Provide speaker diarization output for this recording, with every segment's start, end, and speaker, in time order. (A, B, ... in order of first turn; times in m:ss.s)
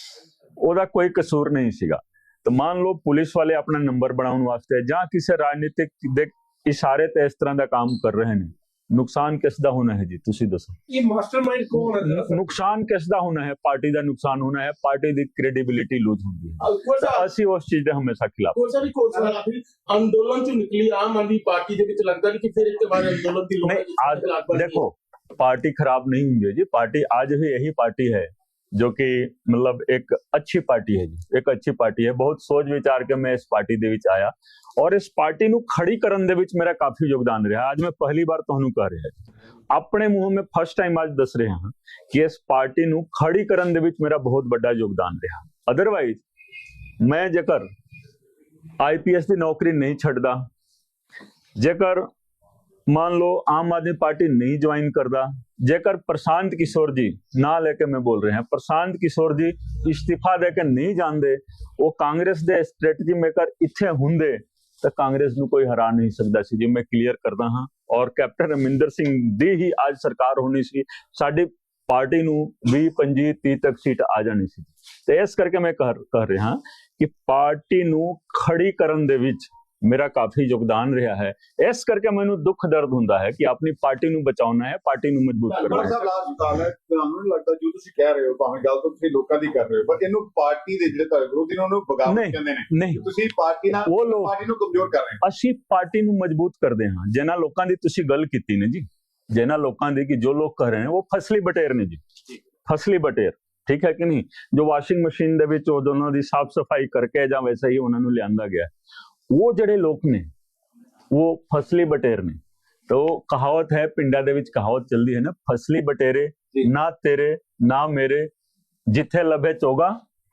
0:00.6-0:10.8 A
0:10.9-0:12.4 B
0:11.9-0:18.6 A
0:16.6-0:17.3 B
0:18.5-0:24.8 B
0:23.6-0:39.2 A
0:39.7-0:46.2 A
0:47.0-0:47.7 A
0:48.8-0:50.4 A
0:51.6-0:52.1 A
0:52.9-1:26.0 A
1:25.5-1:35.2 C
1:32.0-1:33.1 A
1:33.8-1:34.4 A
1:35.2-1:42.0 A
1:42.6-1:48.7 A
1:49.3-1:50.3 A
1:51.1-1:58.3 A
1:58.9-2:00.0 A